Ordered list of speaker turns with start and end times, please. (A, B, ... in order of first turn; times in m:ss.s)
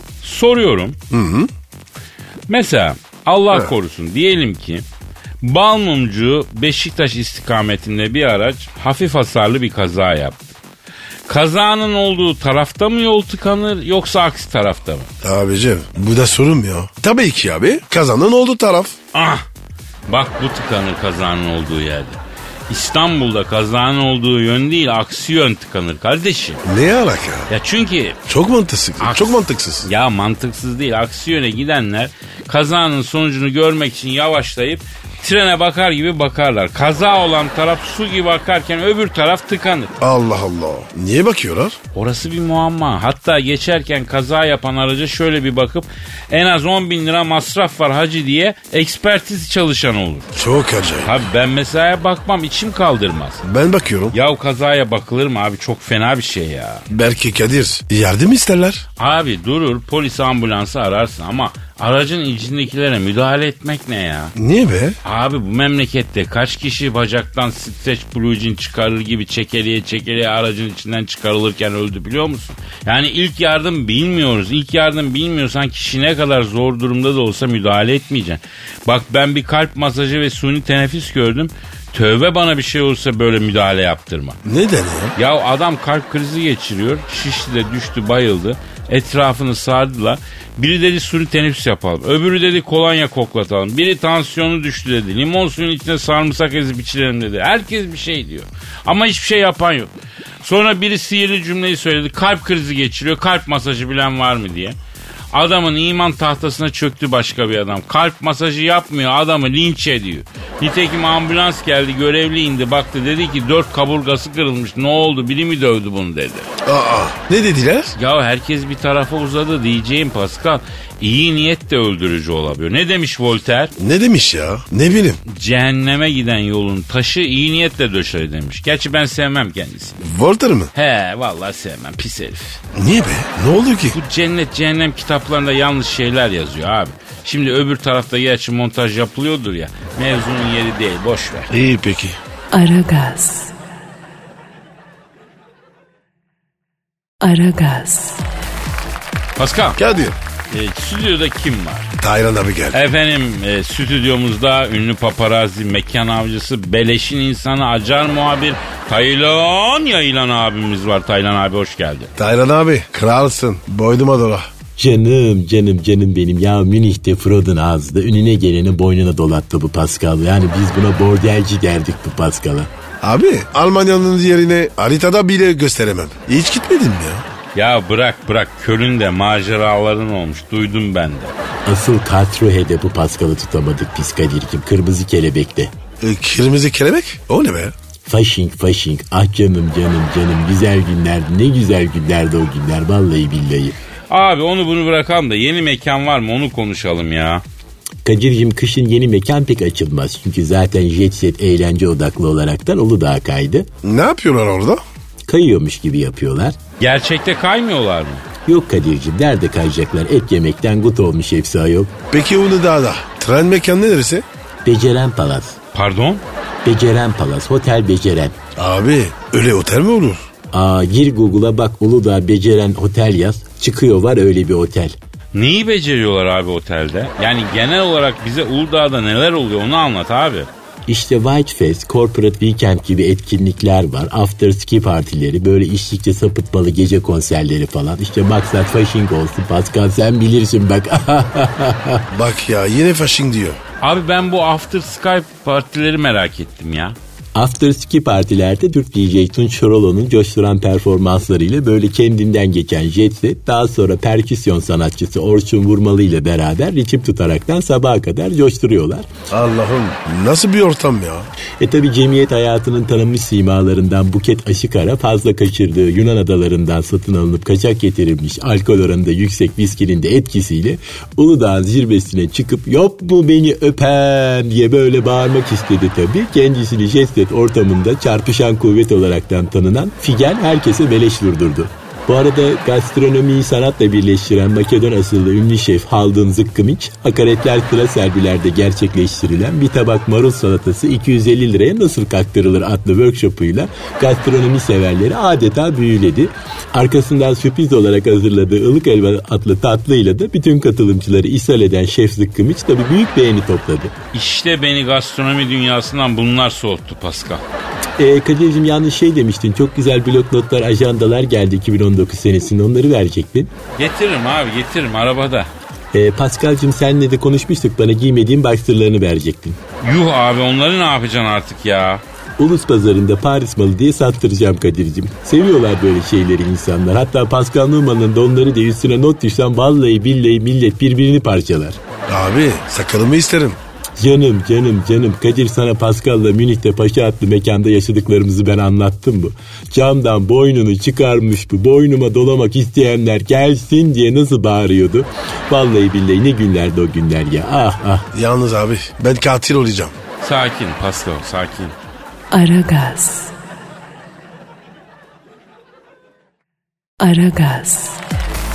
0:00.2-0:01.0 A
0:01.1-0:01.5 B
0:02.5-0:04.8 A
0:05.4-0:10.4 A
0:11.3-0:15.1 A
0:15.2-0:19.0 B
0:19.1-0:19.4 A
0:20.1-0:26.6 A
0:26.6-0:27.5 B
0:27.5-0:28.2 A
0:28.3-0:29.9 B
0:29.0-0:39.9 A
0:40.0-0:41.8 B
0:41.9-0:50.3 A
0:50.3-0:51.3 B
0:51.0-0:53.4 A
0:53.4-0:54.2 B
0:54.1-0:56.8 A
0:56.9-0:58.8 B
0:59.0-1:04.3 A
1:04.4-1:05.0 B
1:05.0-1:24.4 A
1:24.4-1:25.1 B
1:25.2-1:44.8 A
1:45.3-1:56.5 A
1:56.6-1:58.0 B
1:58.0-2:03.7 A
2:03.8-2:05.2 B
2:05.3-2:10.0 A
2:10.0-2:10.7 B
2:10.7-2:12.6 A
2:12.7-2:14.0 B
2:13.9-2:21.5 A
2:21.5-2:22.2 B
2:22.5-2:23.5 C
2:27.2-2:28.2 C
2:29.4-2:29.8 A
2:29.8-2:30.2 B
2:30.5-2:31.9 A
2:32.0-2:32.8 B
2:32.7-2:42.1 A
2:42.2-2:44.5 B
2:44.8-2:52.7 D
2:53.0-2:57.2 B
2:57.6-3:01.3 A
3:01.7-3:05.7 D
3:06.0-3:07.7 B
3:08.1-3:13.8 D
3:14.1-3:17.4 A
3:18.0-3:23.7 D
3:23.8-3:24.8 B
3:25.3-3:26.6 D
3:26.8-3:28.2 A
3:28.4-3:32.0 D
3:32.1-3:34.2 B
3:34.6-3:35.6 D
3:35.7-3:36.2 A
3:36.6-3:38.4 D
3:38.6-3:40.3 B
3:40.5-3:45.0 D
3:45.3-3:50.5 A
3:50.9-4:02.0 D
4:02.1-4:03.6 B
4:03.8-4:07.0 A
4:07.4-4:19.1 D
4:19.3-4:21.3 B
4:21.6-5:04.0 D
5:04.1-5:07.4 A
5:08.0-5:13.5 D
5:13.8-5:15.5 A
5:15.9-5:19.6 D
5:19.8-5:22.0 A
5:22.4-5:31.8 D
5:32.1-5:33.6 B
5:34.0-5:48.1 D
5:48.1-5:49.9 B
5:50.2-5:51.8 A
5:52.3-5:53.3 C
5:57.0-5:58.0 C